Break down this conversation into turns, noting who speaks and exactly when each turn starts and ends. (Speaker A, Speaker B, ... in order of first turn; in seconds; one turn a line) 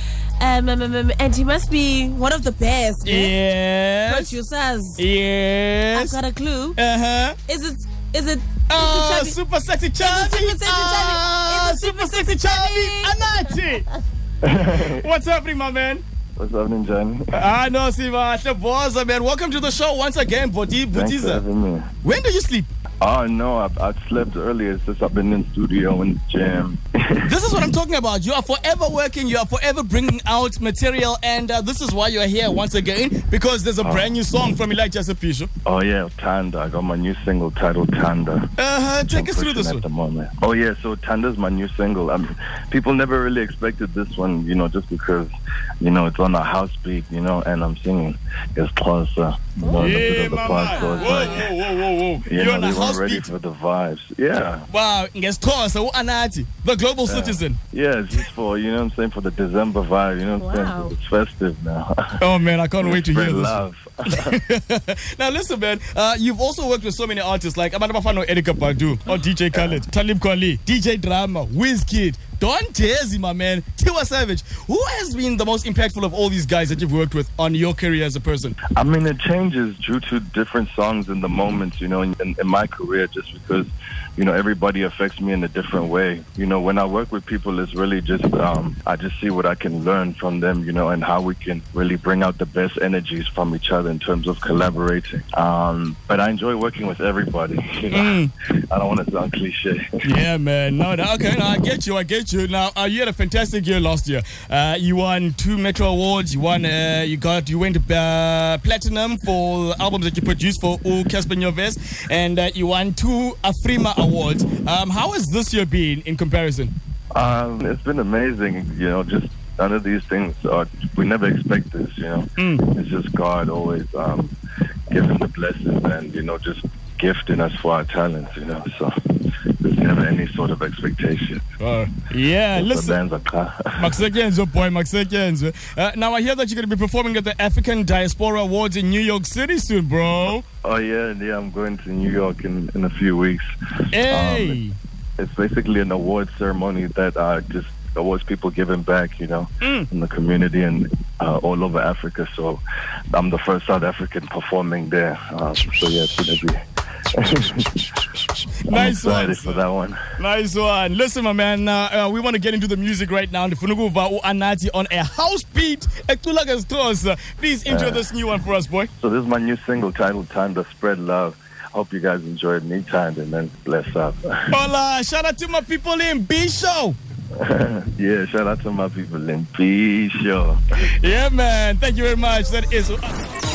Speaker A: 0.4-3.4
Speaker B: 3.0-4.3
Speaker A: 4.1-5.0
Speaker B: 5.0-6.2
Speaker A: 5.9-6.8
Speaker B: 6.8-7.4
Speaker A: 7.5-9.4
Speaker B: 8.7-13.8
Speaker A: 10.0-13.9
Speaker C: 14.4-15.1
Speaker B: 14.8-16.0
Speaker C: 16.4-17.3
Speaker B: 17.3-21.4
Speaker C: 20.9-21.9
Speaker B: 22.0-22.7
Speaker C: 23.0-27.3
Speaker B: 27.2-35.5
Speaker C: 33.8-34.2
Speaker C: 35.6-38.5
Speaker B: 38.6-39.8
Speaker C: 39.0-51.5
Speaker A: 49.6-51.5
Speaker B: 49.8-53.3
Speaker C: 52.3-54.7
Speaker B: 54.7-57.6
Speaker C: 57.1-61.9
Speaker A: 60.4-60.9
Speaker B: 62.2-78.6
Speaker C: 62.8-64.4
Speaker C: 69.5-69.8
Speaker C: 78.8-99.9
Speaker B: 97.9-98.3
Speaker B: 100.0-116.7
Speaker C: 117.1-124.3
Speaker B: 122.4-122.7
Speaker C: 124.9-128.9
Speaker C: 129.6-131.4
Speaker B: 131.6-133.0
Speaker C: 132.5-134.0
Speaker B: 133.8-140.4
Speaker C: 140.6-143.4
Speaker B: 143.9-144.8
Speaker C: 144.0-144.6
Speaker C: 145.2-156.6
Speaker B: 149.6-149.9
Speaker C: 157.1-157.9
Speaker B: 158.7-159.6
Speaker C: 158.7-160.0
Speaker B: 160.2-168.9
Speaker C: 167.7-168.1
Speaker C: 169.0-174.6
Speaker B: 174.5-177.0
Speaker C: 177.4-180.6
Speaker B: 180.9-183.1